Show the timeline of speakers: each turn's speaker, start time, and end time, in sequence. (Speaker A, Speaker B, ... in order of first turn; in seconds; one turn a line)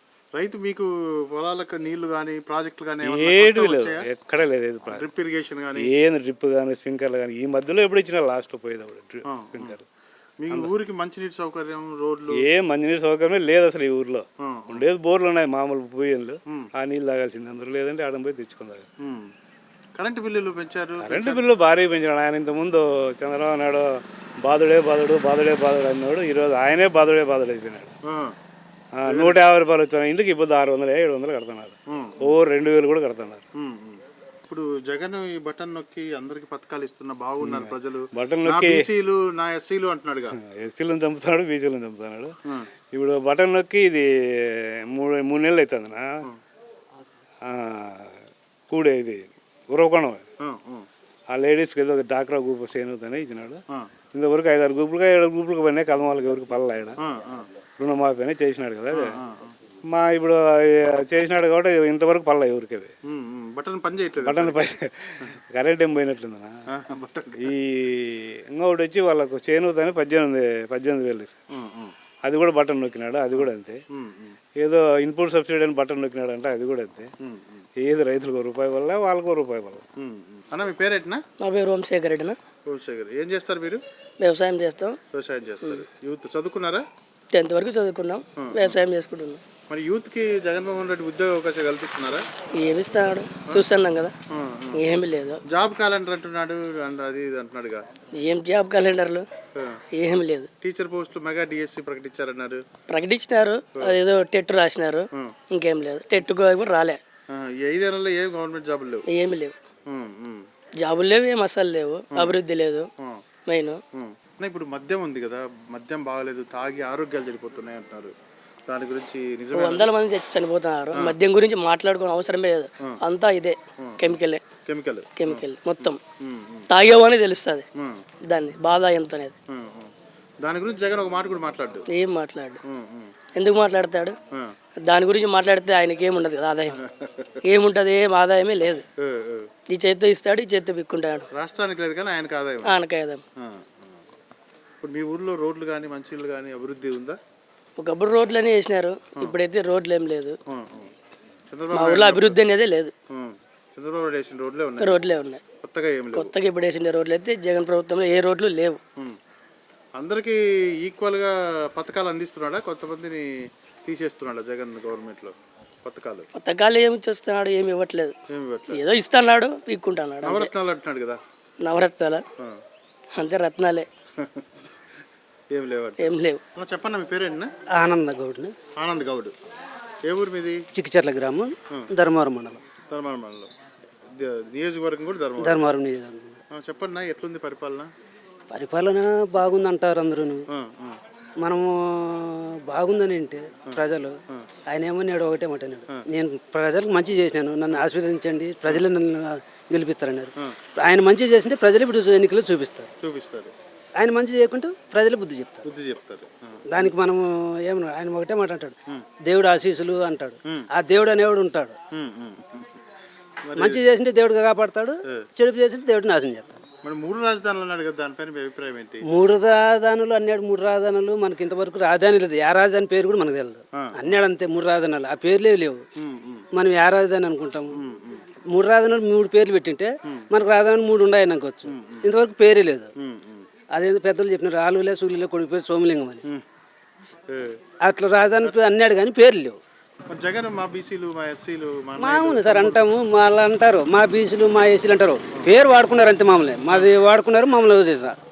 Speaker A: 0.3-4.0
Speaker B: 3.0-5.0
Speaker A: 4.9-5.9
Speaker B: 5.8-9.9
Speaker A: 9.3-9.7
Speaker A: 10.4-12.4
Speaker B: 12.4-18.9
Speaker A: 14.4-14.8
Speaker A: 19.0-19.3
Speaker A: 20.0-21.4
Speaker B: 21.0-27.9
Speaker A: 28.1-28.4
Speaker B: 29.0-33.5
Speaker A: 29.1-29.4
Speaker A: 31.9-32.2
Speaker A: 33.6-40.4
Speaker B: 37.4-38.8
Speaker B: 40.4-42.4
Speaker B: 42.9-46.2
Speaker B: 47.4-48.2
Speaker B: 48.7-50.2
Speaker A: 50.4-50.9
Speaker B: 51.3-57.0
Speaker A: 57.0-57.5
Speaker B: 57.8-59.1
Speaker A: 58.9-59.6
Speaker B: 59.9-62.9
Speaker A: 63.1-64.6
Speaker B: 64.2-66.6
Speaker A: 66.7-67.5
Speaker B: 67.4-71.4
Speaker A: 71.5-71.9
Speaker B: 72.2-73.8
Speaker A: 73.3-74.4
Speaker B: 74.6-77.1
Speaker A: 77.2-77.6
Speaker B: 77.8-79.9
Speaker A: 80.0-81.2
Speaker C: 81.4-82.4
Speaker A: 82.7-83.8
Speaker C: 84.2-85.0
Speaker A: 85.1-86.8
Speaker C: 87.3-89.4
Speaker A: 88.4-88.7
Speaker A: 89.7-92.2
Speaker C: 92.6-94.1
Speaker A: 94.3-94.8
Speaker C: 94.8-95.4
Speaker A: 95.5-97.9
Speaker C: 98.2-99.2
Speaker C: 99.9-100.5
Speaker A: 100.6-102.6
Speaker C: 102.9-107.0
Speaker A: 107.3-109.0
Speaker C: 109.1-109.5
Speaker A: 109.9-110.5
Speaker C: 110.8-112.9
Speaker C: 113.5-113.8
Speaker A: 113.9-118.1
Speaker A: 118.7-119.9
Speaker C: 119.6-124.4
Speaker A: 124.7-126.7
Speaker C: 125.2-126.0
Speaker C: 126.7-127.7
Speaker A: 127.8-128.0
Speaker C: 128.3-129.3
Speaker A: 129.5-131.9
Speaker C: 131.9-132.6
Speaker A: 132.7-133.1
Speaker C: 133.3-134.2
Speaker C: 134.8-136.8
Speaker A: 136.9-137.4
Speaker C: 137.4-138.8
Speaker A: 139.0-139.5
Speaker C: 139.7-141.3
Speaker A: 141.3-142.7
Speaker C: 142.7-143.2
Speaker A: 143.4-143.8
Speaker A: 144.8-147.2
Speaker C: 147.8-150.4
Speaker A: 150.5-150.9
Speaker A: 151.5-152.4
Speaker C: 151.7-152.9
Speaker A: 153.1-155.0
Speaker C: 154.8-155.4
Speaker A: 155.6-156.3
Speaker C: 156.1-158.8
Speaker A: 160.0-166.3
Speaker C: 166.3-168.1
Speaker A: 168.3-168.8
Speaker C: 168.7-170.5
Speaker A: 170.3-171.2
Speaker C: 171.6-172.2
Speaker C: 173.2-173.9
Speaker A: 174.2-174.5
Speaker A: 175.5-177.5
Speaker C: 176.0-176.4
Speaker D: 177.8-178.5
Speaker A: 178.8-179.3
Speaker A: 180.1-180.7
Speaker D: 180.8-182.6
Speaker A: 182.9-183.5
Speaker A: 184.2-185.7
Speaker D: 185.4-186.4
Speaker A: 186.5-187.9
Speaker D: 188.5-190.4
Speaker A: 190.5-191.0
Speaker D: 191.4-194.1
Speaker A: 193.7-194.5
Speaker D: 194.7-202.9
Speaker A: 203.0-203.5
Speaker D: 204.0-205.6
Speaker A: 205.7-206.9
Speaker D: 206.7-211.8
Speaker A: 211.9-212.7
Speaker A: 213.4-213.8
Speaker D: 213.6-216.6
Speaker A: 216.8-219.0
Speaker D: 219.1-225.8
Speaker A: 226.0-226.5
Speaker D: 226.5-227.8
Speaker A: 227.7-228.2
Speaker D: 228.5-232.9
Speaker A: 231.7-232.0
Speaker A: 233.0-233.5
Speaker D: 233.7-236.2
Speaker A: 237.3-237.6
Speaker D: 237.8-239.6
Speaker A: 240.1-242.9
Speaker D: 242.0-248.2